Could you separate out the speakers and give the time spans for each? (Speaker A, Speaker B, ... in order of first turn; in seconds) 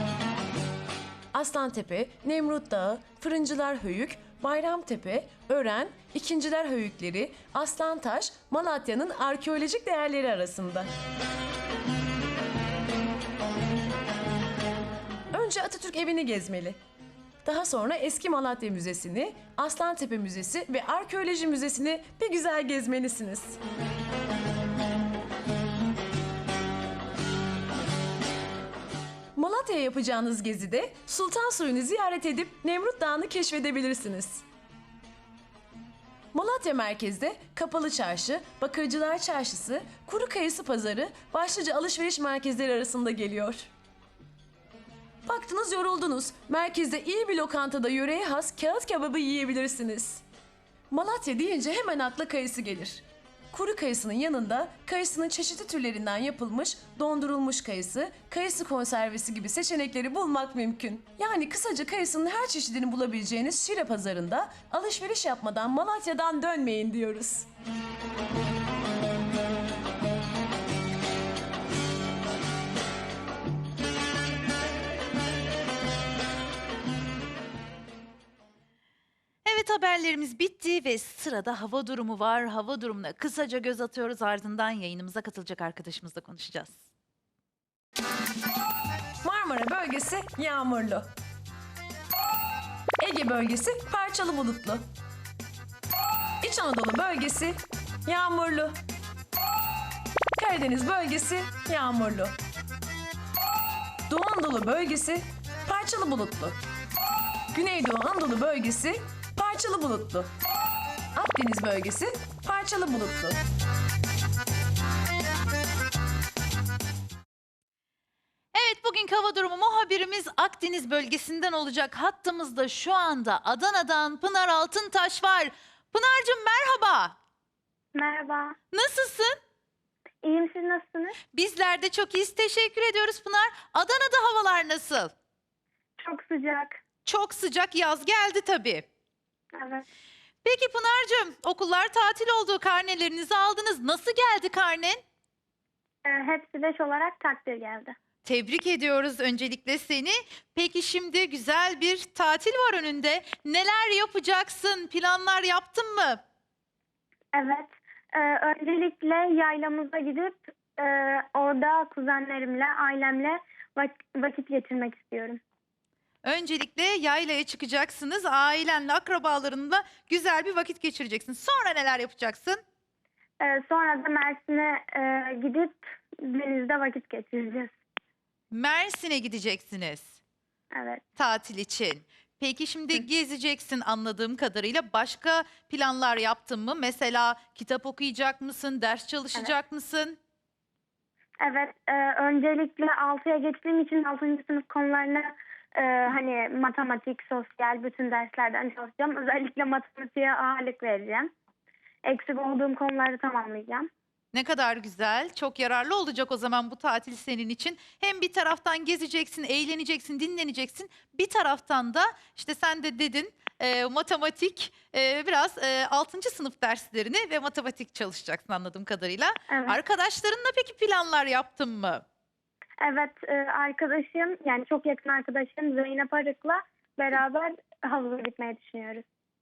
Speaker A: 1.3-10.9, 15.3-16.8, 17.4-23.6, 29.4-34.4, 36.3-43.7, 45.3-50.2, 50.9-67.5, 89.2-91.1, 93.0-94.8, 96.4-98.8, 100.4-102.4, 104.1-106.6, 107.5-110.3, 111.2-113.4
Speaker B: 79.5-86.8, 118.5-127.2, 128.7-129.3, 131.3-135.1, 137.1-138.8, 140.4-145.0, 148.2-156.2, 166.2-172.6, 178.5-180.2, 181.2-190.2, 204.3-222.0
Speaker C: 128.0-128.6, 130.2-131.2, 136.0-136.8, 139.6-139.8, 146.1-147.9, 157.3-165.4, 173.4-177.7, 180.7-181.0, 191.4-201.3, 202.1-203.9, 219.5-219.8, 222.8-229.0